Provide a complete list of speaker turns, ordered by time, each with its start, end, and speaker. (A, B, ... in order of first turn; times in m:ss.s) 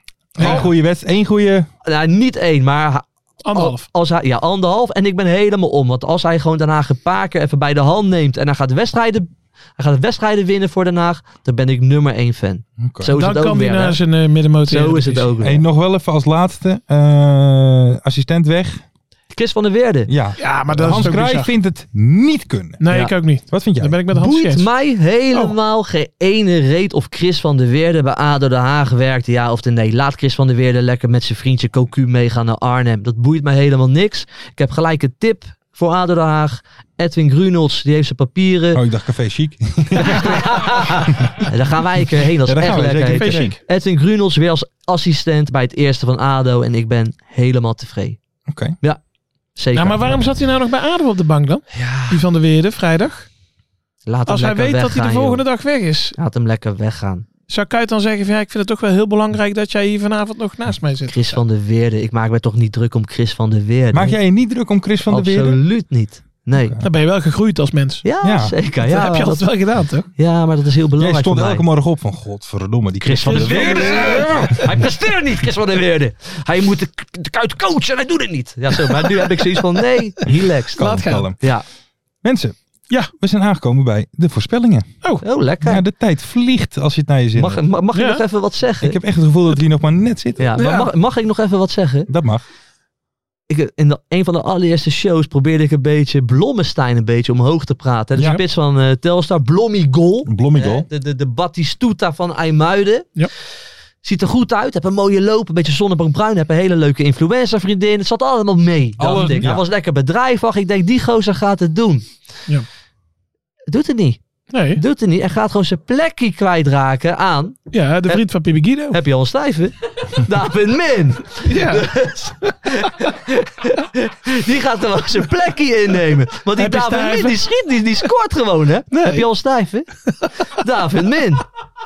0:00.4-0:01.7 A
0:00.4-0:00.7 B
0:00.4-0:00.6 C
0:01.8-0:14.0 C
0:03.4-0:03.8 B
0:12.8-0:13.1 A
0:13.1-0:15.3 B
0:14.7-0:15.6 C
0:15.4-0:18.8 A
0:19.3-0:20.1 C
0:20.1-0:22.8 A
0:20.4-0:21.5 B
0:22.8-0:24.6 B
0:22.9-0:23.1 C
0:23.5-0:24.0 A
0:24.1-0:38.8 C
0:38.7-0:41.5 A
0:39.9-0:48.2 C
0:42.4-0:43.5 A
0:43.1-0:43.6 B
0:48.5-0:48.8 A
0:49.6-0:50.2 C
0:49.7-0:53.3 B
0:51.8-0:52.1 C
0:54.0-0:55.4 C
0:54.3-0:56.1 B
0:56.1-0:57.2 C
0:57.5-1:01.4 B
1:01.1-1:04.2 C
1:03.9-1:05.6 A
1:05.1-1:06.8 C
1:06.5-1:06.8 A
1:06.8-1:08.0 B
1:08.0-1:09.5 C
1:08.2-1:08.5 A
1:08.8-1:10.1 B
1:10.2-1:11.6 C
1:11.0-1:14.7 A
1:13.0-1:21.6 C
1:13.2-1:14.6 B
1:20.3-1:21.4 A
1:20.8-1:21.3 B
1:22.2-1:22.6 A
1:23.1-1:24.9 A
1:25.2-1:25.8 C
1:25.6-1:27.6 A
1:27.3-1:29.0 C
1:27.9-1:28.2 B
1:28.8-1:30.5 A
1:30.4-1:32.1 C
1:30.6-1:30.9 B
1:32.1-1:32.4 A
1:33.5-1:43.1 C
1:40.2-1:40.9 A
1:44.0-1:52.0 C
1:49.0-1:49.6 A
1:53.7-1:54.2 C
1:54.5-1:54.8 B
1:54.7-1:58.2 C
1:57.7-1:59.0 B
1:58.9-2:09.9 C
2:01.4-2:01.9 B
2:06.6-2:07.4 B
2:08.9-2:09.2 B
2:10.4-2:11.4 C